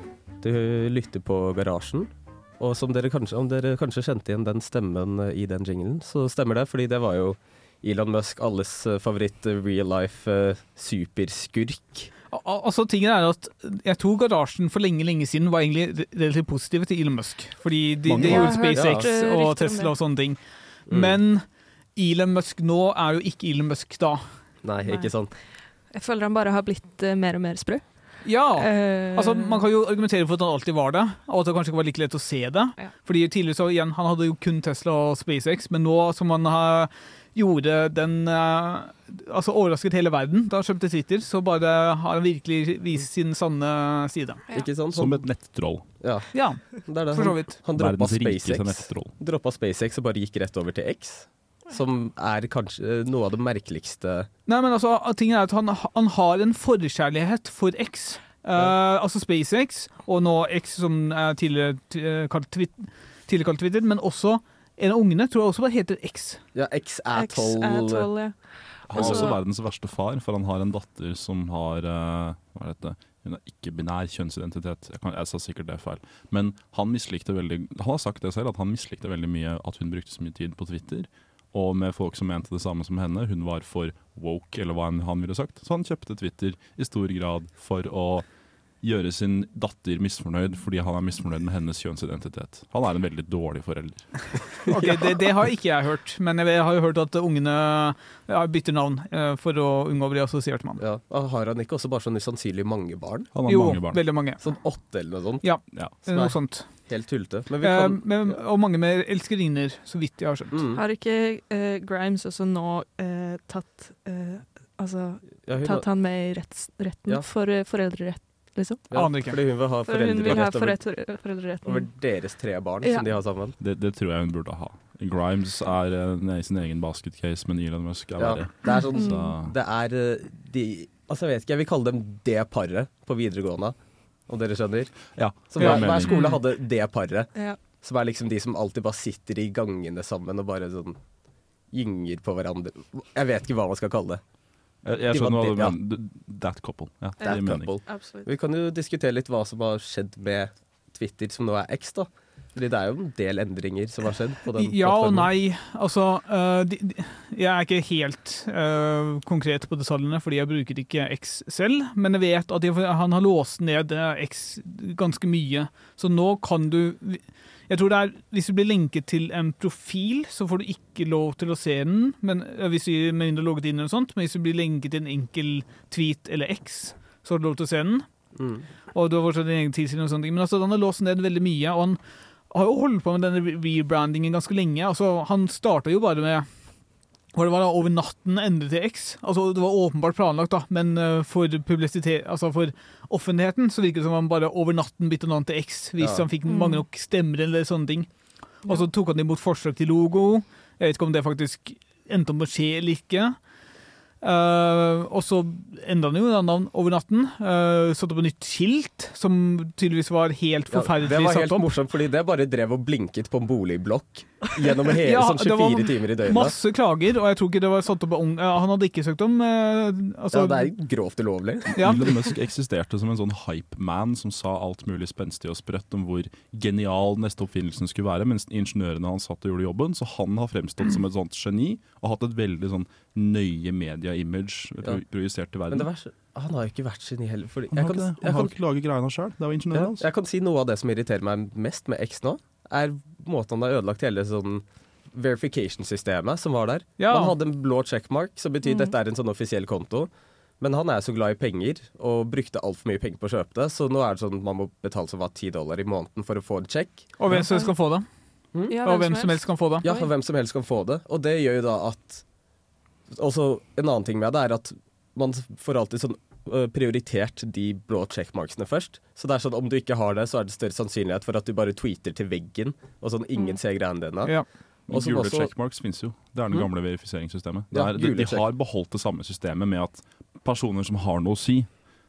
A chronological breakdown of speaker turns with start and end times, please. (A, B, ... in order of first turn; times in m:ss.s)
0:00.4-0:12.1 A
0:12.3-0:24.4 B
0:18.1-0:18.6 C
0:18.2-0:19.9 D
0:18.7-0:19.0 A
0:20.9-0:21.2 A
0:24.6-0:25.3 A
0:24.8-0:29.6 D
0:28.2-0:44.4 B
0:44.5-0:45.3 A
0:44.9-0:45.9 C
0:46.0-0:54.3 A
0:46.3-0:47.6 B
0:47.8-0:49.1 C
0:54.4-1:06.4 B
1:06.5-1:08.1 A
1:07.1-1:09.4 D
1:08.9-1:28.2 C
1:08.9-1:09.3 A
1:28.8-1:34.5 C
1:34.6-1:40.8 B
1:34.7-1:35.2 A
1:40.8-1:43.3 A
1:43.3-1:44.2 C
1:43.5-1:44.8 B
1:44.4-1:48.4 A
1:45.4-1:46.9 B
1:47.6-1:50.6 B
1:50.5-1:50.8 A
1:50.7-1:59.1 D
1:55.4-1:55.9 A
1:58.9-2:00.8 A
1:58.9-1:59.4 B
1:59.6-2:01.9 D
2:01.6-2:03.5 A
2:03.6-2:09.5 C
2:08.2-2:13.8 A
2:08.6-2:09.3 D
2:14.3-2:21.0 A
2:15.1-2:16.2 C
2:15.6-2:15.8 B
2:16.1-2:16.3 D
2:21.7-2:24.2 A
2:24.8-2:27.8 C
2:25.1-2:25.8 A
2:27.2-2:28.3 D
2:27.2-2:35.3 A
2:34.6-2:58.0 B
2:58.4-2:58.6 A
2:58.9-3:02.0 B
3:02.5-3:23.5 B
3:16.0-3:16.2 A
3:16.5-3:16.8 D
3:24.2-3:31.6 B
3:30.7-3:36.5 A
3:35.0-3:40.7 B
3:40.3-3:41.8 A
3:41.8-3:55.9 C
3:55.7-3:58.5 A
3:57.7-4:00.0 C
3:59.7-4:17.1 A
4:07.0-4:07.4 B
4:08.6-4:08.9 D
4:17.2-4:18.0 B
4:18.7-4:20.1 D
4:18.8-4:19.8 B
4:19.8-4:22.2 A
4:23.1-4:35.5 A
4:34.9-4:41.9 C
4:37.7-4:38.4 A